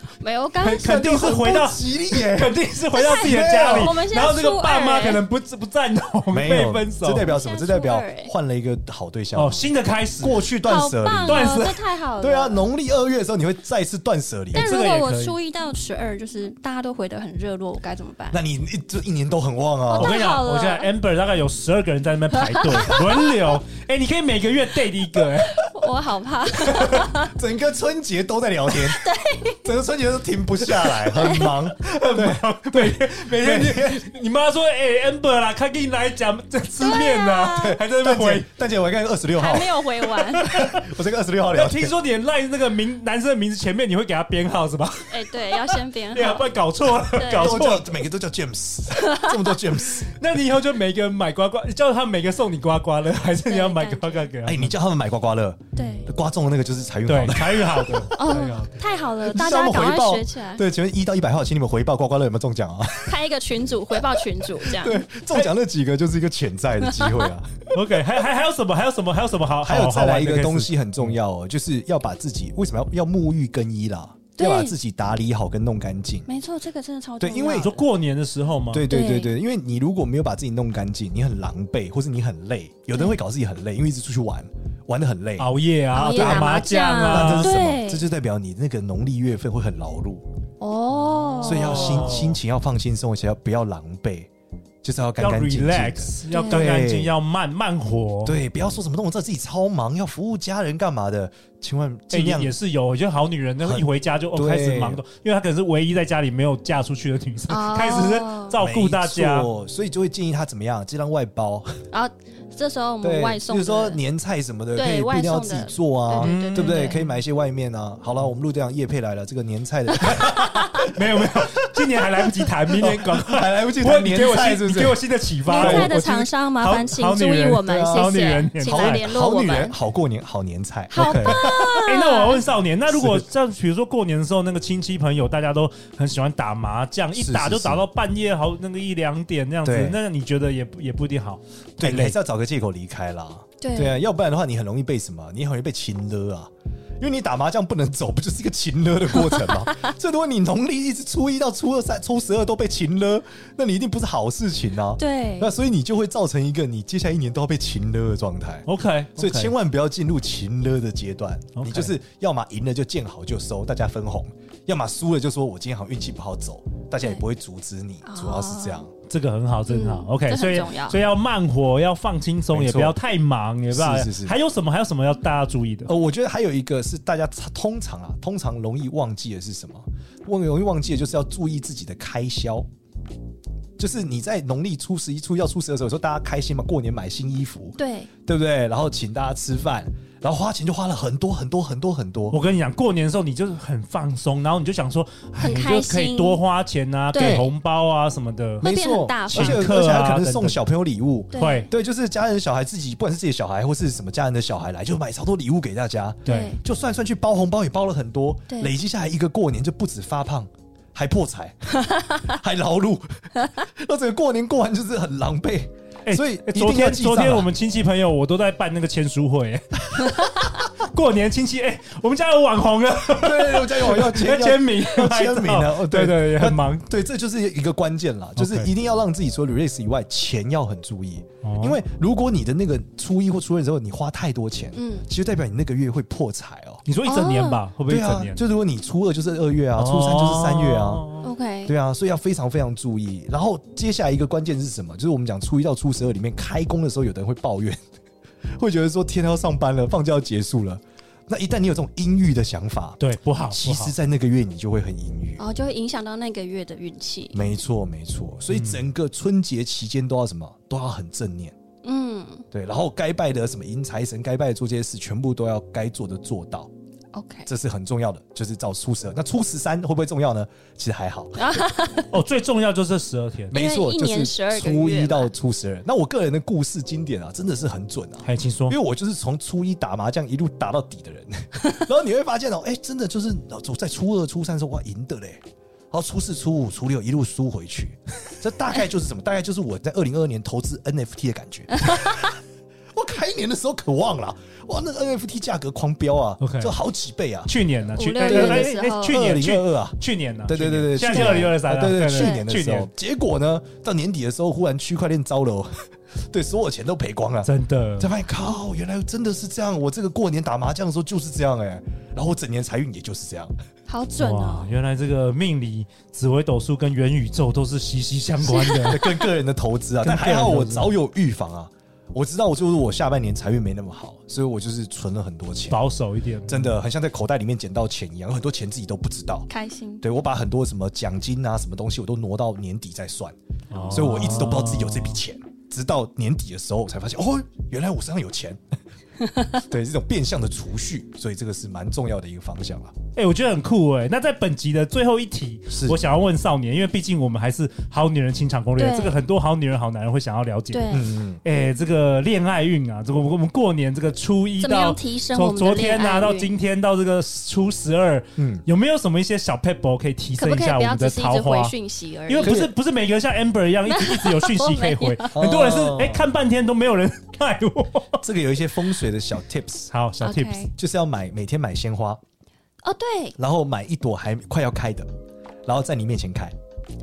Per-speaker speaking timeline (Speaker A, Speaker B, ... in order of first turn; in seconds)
Speaker A: 0.2-1.4, 2.9-5.2, 7.2-8.3, 10.7-12.7, 14.5-18.4, 19.9-20.9, 22.4-23.2, 25.5-27.4, 28.7-29.6, 30.9-31.6, 36.8-37.8, 39.4-40.6, 45.1-46.5, 47.1-47.7, 49.0-49.4, 53.5-54.3, 55.8-56.1, 58.1-60.6, 63.0-65.0, 66.8-67.3, 74.4-74.8, 76.3-77.8, 78.9-79.3, 85.9-88.1, 90.6-92.2, 96.3-96.6, 107.5-108.5, 111.9-114.0, 114.8-117.0, 120.1-120.6, 125.5-129.8, 130.9-132.4, 143.6-144.0, 155.0-155.5, 168.1-168.9, 169.7-171.0, 187.8-188.1, 195.4-196.4, 197.1-197.5, 198.6-199.8, 201.3-201.7, 206.3-206.6, 234.8-235.1, 237.0-237.6, 241.2-241.7, 255.4-257.4, 261.8-262.4, 267.1-267.5, 271.4-272.1, 273.5-275.3, 297.9-299.2, 301.0-301.6, 302.1-302.5, 313.9-314.7, 318.4-319.3, 329.5-330.0, 333.8-334.0, 348.8-349.2, 350.7-351.1, 354.6-356.5, 360.4-362.6, 363.9-365.4, 370.2-370.7, 372.8-373.4
Speaker B: 0.6-7.3, 9.3-10.4, 11.2-11.8, 14.5-15.4, 20.0-25.6, 31.8-38.5, 40.3-40.9, 41.5-47.9, 50.2-54.8, 57.1-58.8, 67.7-71.2, 77.5-78.9, 85.4-87.5, 91.2-92.4, 95.2-98.3, 102.1-109.5, 116.2-116.9, 120.0-129.1, 131.3-142.2, 158.7-159.5, 161.6-162.0, 169.1-175.9, 192.3-198.7, 199.3-200.6, 201.4-201.7, 206.2-206.5, 216.1-226.9, 228.4-228.7, 231.4-231.8, 236.9-238.4, 239.7-241.3, 253.0-253.9, 258.5-258.8, 272.1-273.6, 278.2-278.8, 296.4-296.7, 297.4-302.9, 307.4-308.1, 314.2-319.1, 320.0-320.9, 325.7-326.8, 333.7-335.2, 343.2-361.8, 362.3-368.2, 369.9-370.7
Speaker C: 0.7-4.0, 6.3-9.7, 10.2-11.6, 12.2-14.7, 18.3-20.1, 26.6-29.0, 29.6-34.0, 37.7-39.8, 40.4-41.9, 47.4-50.2, 54.4-58.3, 59.2-63.2, 63.9-67.7, 69.6-76.3, 77.2-77.7, 78.7-90.2, 91.4-94.3, 94.8-97.2, 98.2-102.6, 103.6-105.0, 108.6-111.8, 113.0-121.4, 122.0-125.9, 127.7-128.1, 128.6-131.8, 132.9-133.3, 137.1-137.8, 139.6-140.0, 141.8-168.9, 172.5-173.0, 173.7-174.4, 175.9-182.7, 183.8-192.4, 197.2-197.5, 198.6-217.5, 223.1-236.8, 237.9-241.1, 241.7-247.8, 248.6-255.4, 257.3-261.5, 262.5-266.7, 267.5-271.7, 273.5-292.3, 292.9-297.5, 298.2-305.7, 306.3-313.6, 318.7-325.8, 326.5-329.5, 330.0-333.4, 333.9-338.6, 339.6-342.9, 345.7-346.0, 350.9-351.4, 358.4-358.6, 362.4-362.7, 365.4-366.2, 368.2-369.9, 370.8-372.2, 373.4-375.1, 375.7-376.6